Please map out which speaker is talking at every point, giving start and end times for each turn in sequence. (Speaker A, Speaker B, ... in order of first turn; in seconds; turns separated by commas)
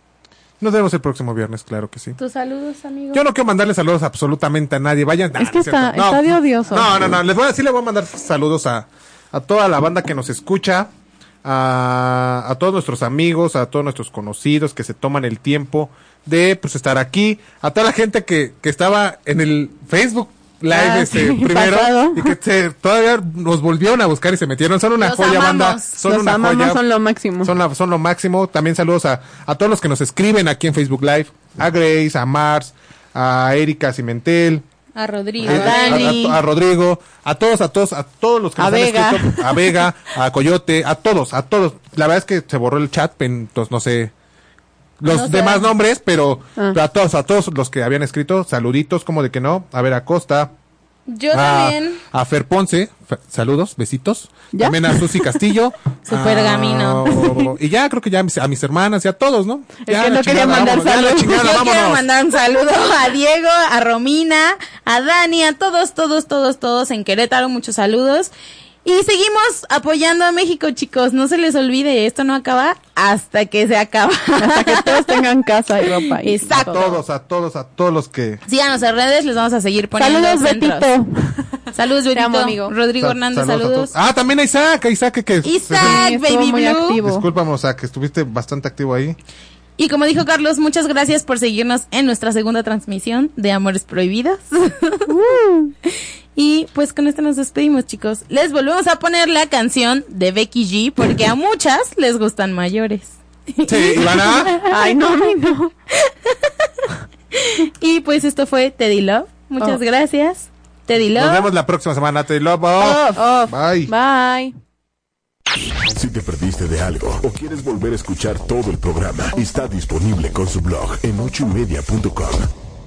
Speaker A: 0.6-2.2, Speaker B: 2.2-3.2, Speaker A: 3.1-10.9, Speaker C: 5.3-7.1, Speaker A: 11.4-26.8, Speaker C: 20.7-22.3, Speaker B: 25.0-25.9, Speaker C: 26.0-27.5, Speaker A: 27.4-34.6, Speaker B: 34.9-36.2, Speaker A: 35.4-44.1, Speaker C: 35.4-36.4, Speaker C: 38.6-39.8, Speaker A: 45.0-50.5, Speaker B: 45.1-45.7, Speaker B: 51.1-52.0, Speaker A: 51.3-62.0, Speaker C: 54.5-55.4, Speaker B: 56.0-57.4, Speaker C: 59.9-61.4, Speaker B: 60.8-68.3, Speaker B: 68.8-75.2, Speaker C: 74.4-76.8, Speaker B: 75.8-77.0, Speaker A: 76.5-78.4, Speaker B: 78.5-80.9, Speaker C: 80.0-82.8, Speaker B: 81.7-83.9, Speaker A: 83.0-86.1, Speaker B: 85.4-87.0, Speaker C: 85.7-87.3, Speaker A: 87.0-89.2, Speaker B: 89.8-95.1, Speaker C: 95.1-95.7, Speaker B: 95.8-111.5, Speaker A: 103.6-104.5, Speaker C: 104.6-105.7, Speaker A: 111.2-113.9, Speaker C: 112.8-114.5, Speaker D: 115.9-122.5